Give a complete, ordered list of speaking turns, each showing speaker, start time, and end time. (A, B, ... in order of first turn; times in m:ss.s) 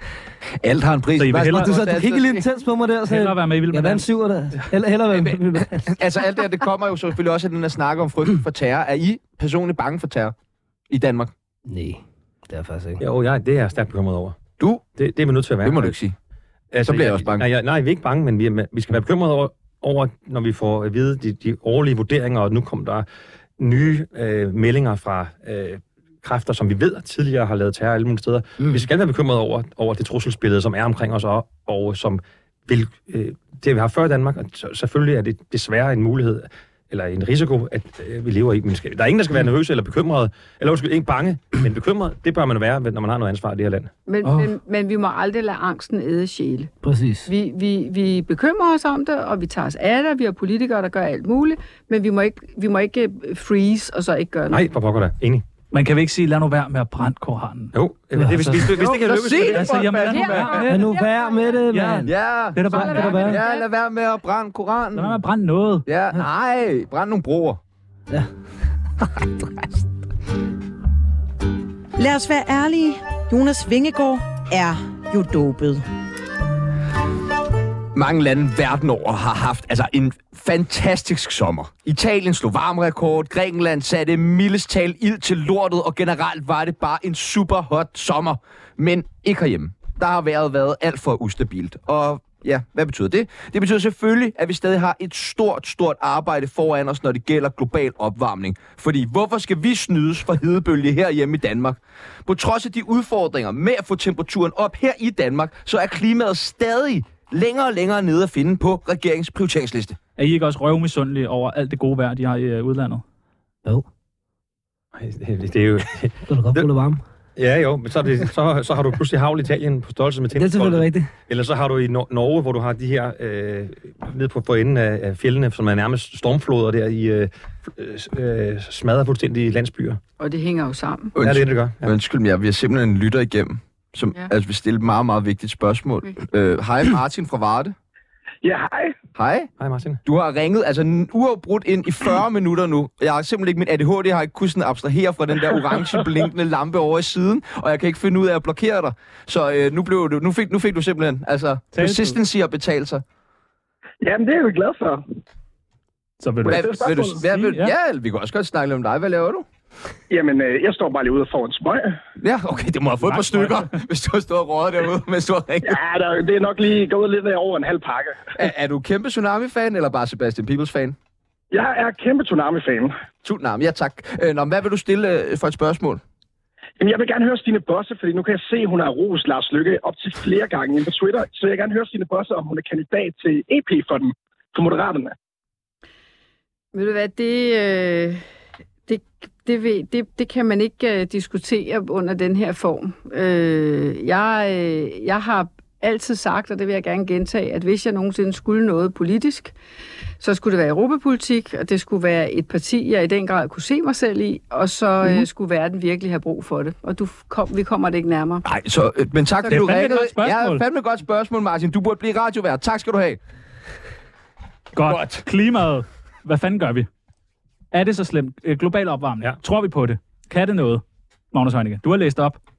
0:00.6-0:02.4 A
0:01.2-0:01.8 B
0:01.5-0:05.9 C
0:03.1-0:04.1 B
0:05.1-0:10.3 A
0:10.9-0:11.3 A
0:11.7-0:13.0 C
0:13.0-0:14.4 D
0:14.6-0:14.8 A
0:15.0-0:15.9 D
0:15.6-0:16.1 A
0:16.7-0:23.0 D
0:16.8-0:17.4 A
0:23.6-0:43.9 D
0:44.1-0:46.7 E
0:44.2-0:44.5 B
0:46.8-0:47.3 C
0:47.2-0:54.6 E
0:54.5-0:55.4 D
0:55.7-0:57.7 B
0:57.7-0:59.8 D
0:58.2-0:58.6 C
0:58.3-0:58.7 B
0:58.8-1:00.7 A
0:59.4-1:00.9 B
1:00.0-1:01.7 E
1:00.6-1:02.1 C
1:01.7-1:03.4 B
1:02.0-1:05.1 A
1:02.7-1:03.6 E
1:02.7-1:03.4 C
1:04.9-1:05.8 B
1:05.8-1:07.6 A
1:09.0-1:09.4 C
1:12.0-1:15.8 F
1:17.9-1:50.0 A
1:50.2-1:53.0 B
1:55.0-1:56.7 D
1:56.2-1:57.0 C
1:57.4-2:10.0 D
2:00.3-2:01.1 C
2:10.2-2:11.1 E
2:11.1-2:17.7 A
2:11.2-2:11.9 D
2:18.4-2:19.0 G
2:19.2-2:19.5 A
2:19.6-2:20.0 D
2:20.0-2:33.0 A
2:31.7-2:32.2 B
2:34.0-2:35.0 G
2:36.2-2:37.7 B
2:36.4-2:39.4 A
2:36.4-2:37.2 G
2:40.1-2:42.0 G
2:42.2-2:45.8 A
2:43.0-2:43.7 B
2:45.6-2:48.4 G
2:48.4-2:51.0 A
2:51.5-2:52.9 G
2:53.2-2:56.0 A
2:56.8-3:05.1 G
3:06.7-3:08.2 E
3:08.9-3:19.5 E
3:20.2-3:28.4 E
3:28.4-3:33.2 A
3:29.5-3:30.6 B
3:34.7-3:36.9 B
3:34.8-3:35.2 A
3:37.7-3:42.4 B